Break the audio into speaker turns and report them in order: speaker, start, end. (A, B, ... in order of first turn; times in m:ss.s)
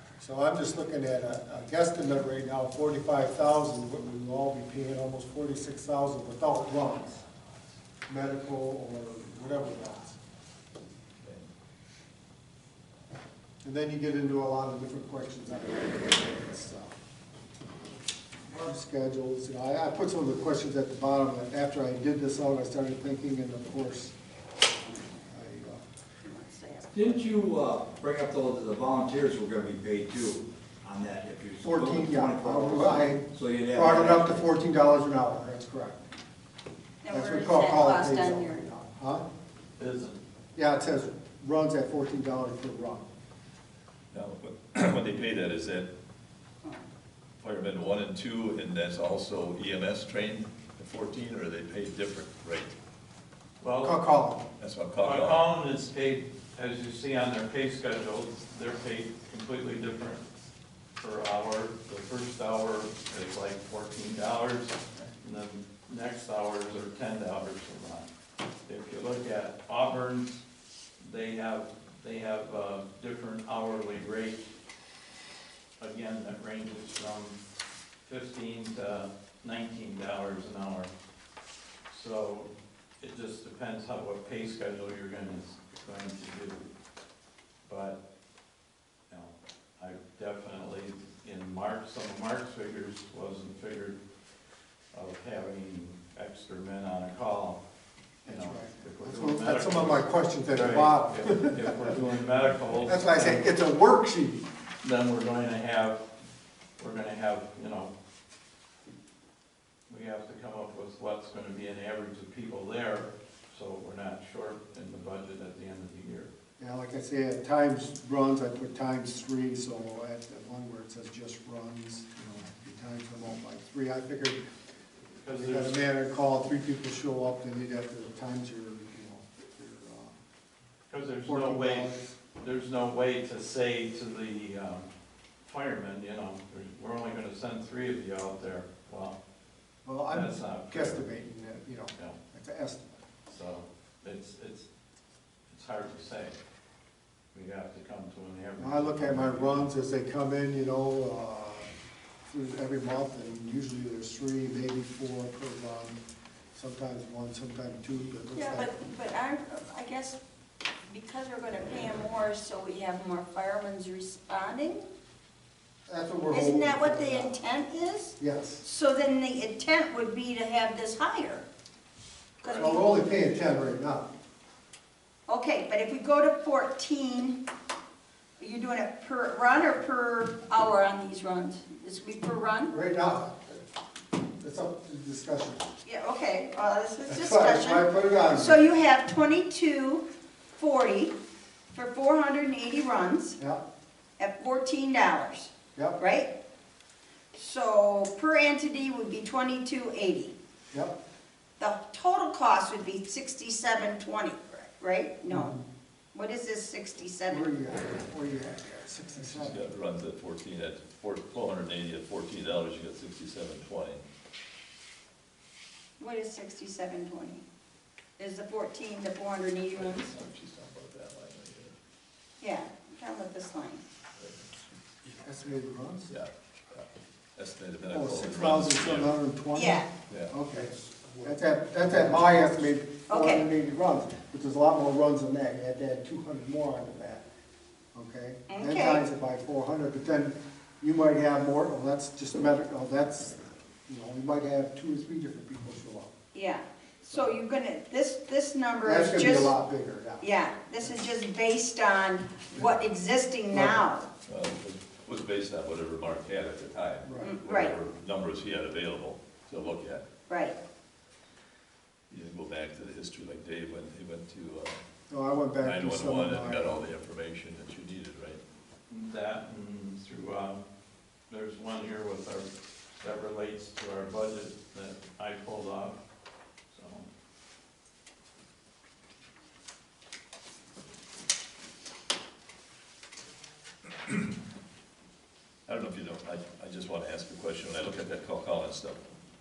0:00.2-0:07.2 A
0:08.1-0:10.2 A
0:11.2-0:11.5 B
0:13.6-0:17.0 A
0:18.5-0:24.1 A
0:25.3-0:25.8 A
0:26.2-0:27.0 C
0:26.9-0:34.5 D
0:31.6-0:36.1 A
0:37.0-0:38.6 C
0:37.1-0:39.2 A
0:39.8-0:40.2 E
0:40.6-0:43.1 A
0:44.1-0:45.9 B
0:47.4-0:52.7 B
0:53.6-0:54.0 E
0:53.8-0:54.5 A
0:54.6-0:55.4 B
0:55.0-1:00.2 E
1:01.0-1:08.1 E
1:08.7-1:10.4 E
1:11.0-1:14.5 E
1:15.8-1:17.4 E
1:18.0-1:20.9 E
1:21.9-1:26.7 E
1:27.6-1:28.0 E
1:29.1-1:34.0 E
1:34.9-1:37.6 E
1:38.2-1:42.0 A
1:38.2-1:43.5 E
1:42.8-1:44.4 A
1:44.8-1:46.0 E
1:46.8-1:47.9 E
1:49.9-1:56.3 E
1:56.6-2:04.4 A
2:05.2-2:05.8 E
2:05.3-2:10.1 A
2:10.9-2:14.9 E
2:11.2-2:12.2 A
2:15.4-2:19.2 E
2:19.8-2:23.0 A
2:20.1-2:21.0 E
2:23.3-2:24.7 E
2:25.5-2:26.4 E
2:27.3-2:29.7 E
2:28.6-2:31.7 A
2:32.3-2:36.0 A
2:36.5-2:38.7 A
2:38.3-2:40.2 C
2:40.8-2:44.8 C
2:45.9-2:47.3 A
2:46.3-2:51.4 C
2:48.2-2:48.6 A
2:52.4-2:52.9 C
2:52.4-2:54.1 A
2:55.3-2:57.4 C
2:58.4-3:02.7 C
3:02.7-3:03.6 A
3:04.4-3:05.7 A
3:05.8-3:10.0 C
3:07.1-3:08.5 A
3:10.6-3:11.1 C
3:11.7-3:13.4 C
3:14.2-3:16.3 C
3:15.7-3:16.0 A
3:17.3-3:20.3 C
3:20.7-3:21.0 A
3:21.6-3:25.5 C
3:25.3-3:25.6 A
3:26.1-3:27.5 C
3:27.3-3:29.6 A
3:29.1-3:34.0 B
3:36.0-3:37.4 C
3:38.2-3:40.1 C
3:39.7-3:41.8 B
3:42.4-3:43.8 C
3:44.2-3:44.4 B
3:45.2-3:46.1 A
3:46.1-3:49.2 B
3:47.9-3:50.7 A
3:49.5-3:49.9 C
3:50.1-3:50.3 B
3:51.2-3:57.2 A
3:53.1-3:53.4 C
3:57.9-4:06.1 A
3:58.5-3:59.0 C
4:06.3-4:09.5 C
4:07.1-4:07.4 A
4:08.8-4:10.3 A
4:10.2-4:14.1 C
4:13.5-4:13.8 A
4:14.3-4:20.0 B
4:17.0-4:17.3 A
4:17.2-4:17.7 C
4:20.3-4:20.6 C
4:22.1-4:24.8 B
4:25.1-4:26.8 A
4:25.6-4:28.4 B
4:28.9-4:30.6 E
4:31.3-4:36.0 E
4:36.7-4:37.1 E
4:45.7-4:49.0 B